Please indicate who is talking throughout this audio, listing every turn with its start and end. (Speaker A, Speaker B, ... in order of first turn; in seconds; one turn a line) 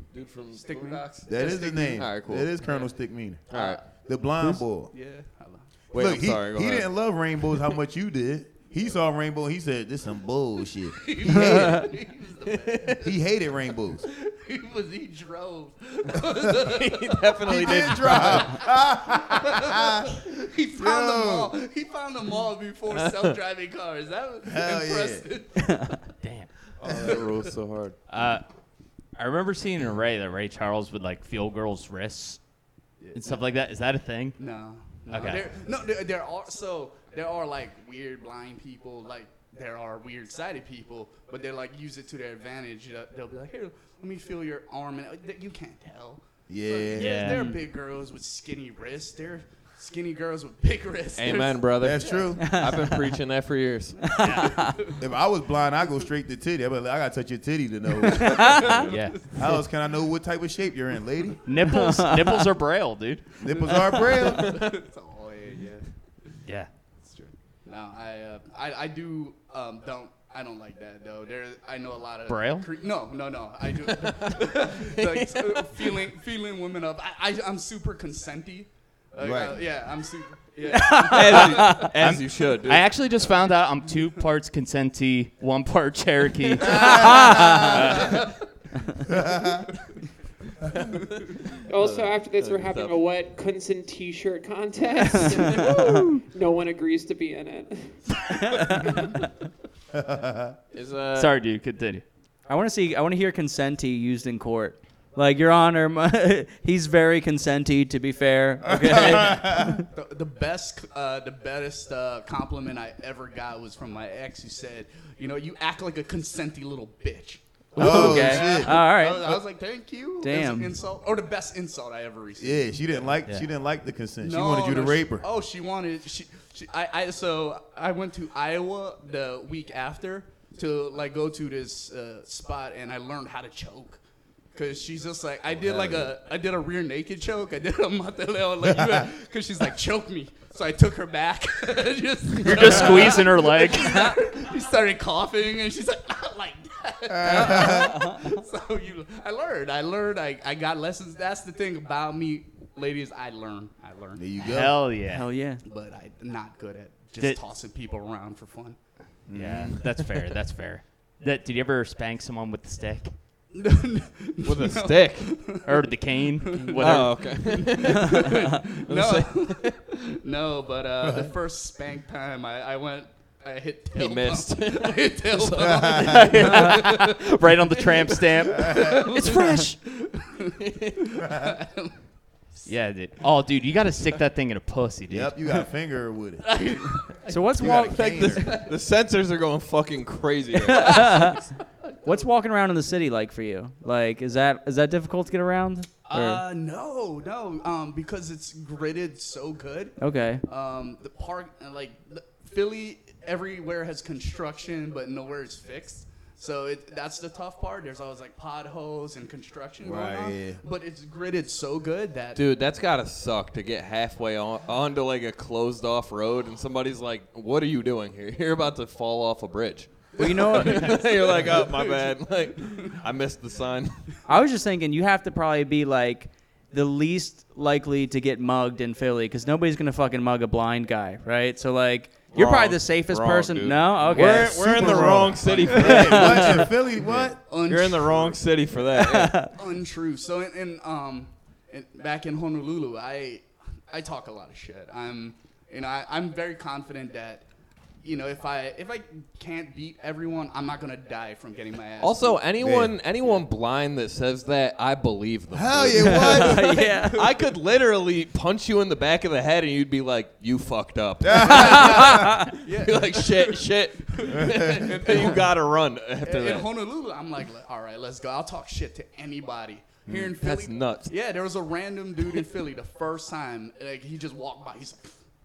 Speaker A: 0.1-2.5
Speaker B: 0.5-2.0
Speaker C: 1.3-4.9
Speaker B: 2.6-2.9
Speaker A: 3.5-3.8
Speaker B: 4.9-5.7
Speaker A: 5.9-6.9
Speaker C: 5.9-11.9
Speaker B: 10.9-13.2
Speaker A: 12.5-13.0
Speaker C: 13.0-14.1
Speaker B: 14.0-18.7
Speaker A: 16.6-18.6
Speaker C: 17.5-21.6
Speaker B: 19.3-26.0
Speaker A: 22.9-23.4
Speaker C: 24.4-25.3
Speaker D: 26.2-26.5
Speaker A: 26.8-28.0
Speaker B: 26.8-27.5
Speaker D: 28.1-28.4
Speaker D: 29.2-32.4
Speaker B: 33.0-33.4
Speaker D: 33.1-34.4
Speaker B: 34.4-52.3
Speaker D: 35.1-35.5
Speaker C: 46.5-47.1
Speaker D: 47.0-47.5
Speaker E: 47.3-47.6
Speaker A: 51.2-54.2
Speaker C: 51.8-52.6
Speaker E: 52.4-53.0
Speaker E: 54.0-54.8
Speaker D: 54.2-54.6
Speaker B: 54.2-54.9
Speaker C: 55.0-61.4
Speaker E: 58.2-58.6
Speaker B: 58.3-59.1
Speaker D: 58.7-59.2
Speaker D: 61.4-63.3
Speaker E: 61.6-62.5
Speaker C: 63.4-64.6
Speaker B: 63.6-65.9
Speaker A: 64.2-64.7
Speaker B: 67.0-81.8
Speaker D: 72.3-72.7
Speaker A: 74.0-76.0
Speaker C: 79.2-79.6
Speaker E: 80.7-81.9
Speaker A: 81.1-82.9
Speaker D: 81.4-88.3
Speaker C: 86.6-87.9
Speaker E: 87.1-87.8
Speaker C: 89.1-89.7
Speaker A: 90.8-93.0
Speaker F: 91.7-98.2
Speaker E: 95.6-96.2
Speaker E: 98.4-99.2
Speaker C: 99.9-100.6
Speaker A: 100.7-101.3
Speaker D: 101.2-102.0
Speaker E: 102.5-109.8
Speaker C: 108.6-109.8
Speaker B: 109.9-123.2
Speaker C: 117.8-118.8
Speaker E: 117.8-119.4
Speaker E: 120.2-120.7
Speaker C: 122.4-125.2
Speaker B: 124.2-134.0
Speaker B: 134.5-154.4
Speaker C: 135.6-136.1
Speaker D: 142.4-144.2
Speaker C: 147.1-148.1
Speaker E: 147.5-147.8
Speaker C: 154.2-154.8
Speaker D: 154.4-155.3
Speaker E: 155.1-155.6
Speaker B: 155.6-158.8
Speaker C: 159.3-159.8
Speaker D: 159.3-163.2
Speaker B: 163.5-182.0
Speaker A: 164.4-165.6
Speaker D: 165.6-167.3
Speaker A: 166.8-169.8
Speaker C: 171.0-171.3
Speaker A: 174.0-176.8
Speaker C: 175.6-176.4
Speaker D: 176.2-179.8
Speaker C: 178.6-179.1
Speaker A: 180.6-181.0
Speaker C: 181.3-181.5
Speaker D: 182.7-185.4
Speaker C: 185.1-186.6
Speaker B: 186.4-187.3
Speaker E: 187.3-188.2
Speaker C: 187.6-188.6
Speaker A: 187.9-191.5
Speaker B: 190.7-191.3
Speaker E: 190.7-191.3
Speaker E: 192.0-196.4
Speaker B: 196.1-212.4
Speaker E: 200.0-200.4
Speaker C: 209.8-210.6
Speaker A: 212.4-224.0
Speaker E: 220.2-221.0
Speaker B: 220.4-222.9
Speaker E: 224.3-234.6
Speaker A: 232.3-239.4
Speaker C: 234.1-237.4
Speaker B: 235.4-236.4
Speaker E: 235.8-236.7
Speaker B: 237.5-238.4
Speaker E: 239.0-239.5
Speaker B: 239.5-247.5
Speaker B: 248.0-252.4
Speaker A: 252.0-256.5
Speaker C: 252.6-253.0
Speaker C: 255.5-256.8
Speaker E: 256.0-257.2
Speaker B: 256.4-257.3
Speaker A: 257.1-266.7
Speaker C: 261.2-262.4
Speaker B: 261.4-265.5
Speaker C: 264.3-265.2
Speaker B: 266.2-275.2
Speaker A: 270.1-271.1